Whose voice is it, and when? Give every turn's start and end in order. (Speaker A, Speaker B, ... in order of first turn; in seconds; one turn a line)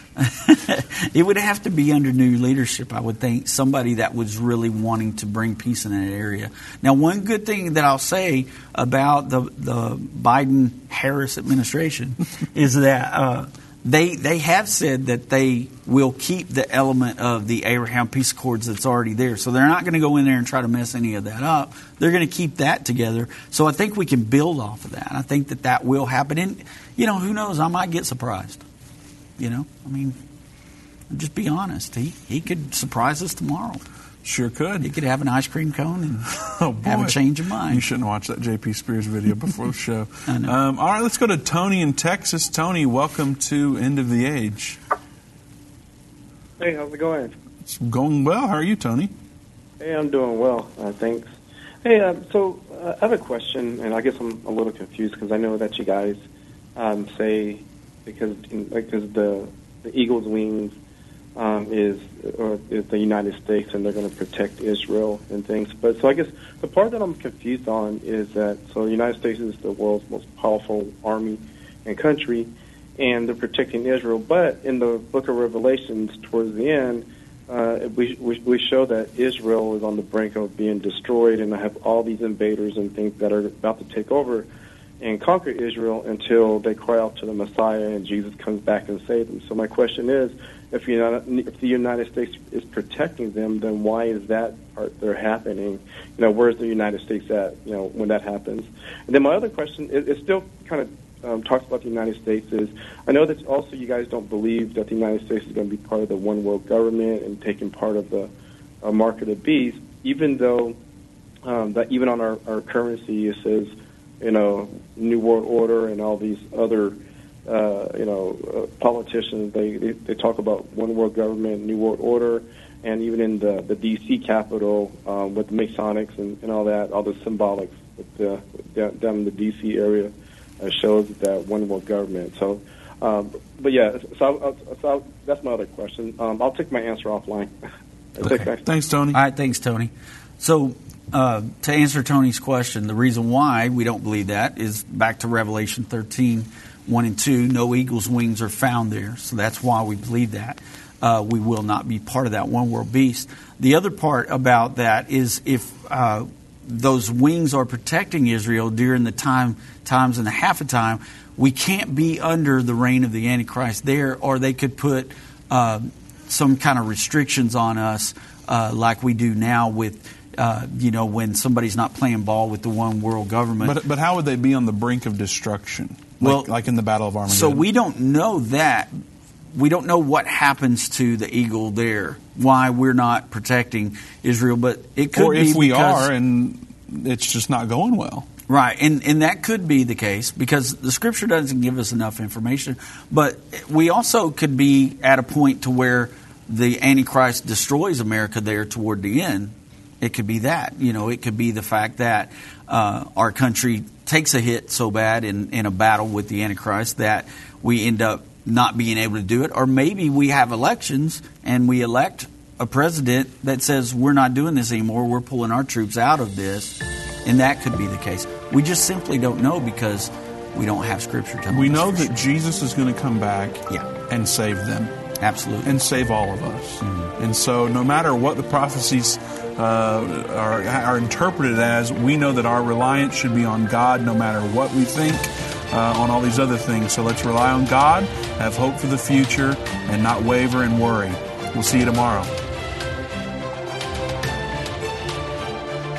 Speaker A: 0.2-28.6
Speaker A: 29.4-30.2
Speaker A: 31.1-33.8
Speaker B: 34.2-34.9
Speaker A: 34.8-36.3
Speaker B: 36.3-37.2
Speaker A: 36.8-37.8
Speaker B: 37.7-44.8
Speaker A: 40.3-40.5
Speaker C: 46.6-47.3
Speaker B: 47.6-49.1
Speaker C: 49.8-51.3
Speaker C: 51.8-56.2
Speaker C: 56.8-60.8
Speaker C: 61.4-84.5
Speaker C: 85.0-108.3
Speaker C: 108.8-110.8
Speaker C: 111.4-137.5
Speaker C: 138.2-138.6
Speaker A: 138.2-138.5
Speaker B: 138.2-139.2
Speaker A: 139.1-173.8
Speaker B: 173.6-177.6
Speaker A: 176.2-176.5
Speaker A: 177.2-178.9
Speaker A: 179.5-186.1
Speaker B: 185.1-188.3
Speaker A: 188.5-222.2
Speaker B: 221.5-225.0
Speaker A: 225.2-225.8
Speaker B: 225.6-242.3
Speaker A: 226.8-227.1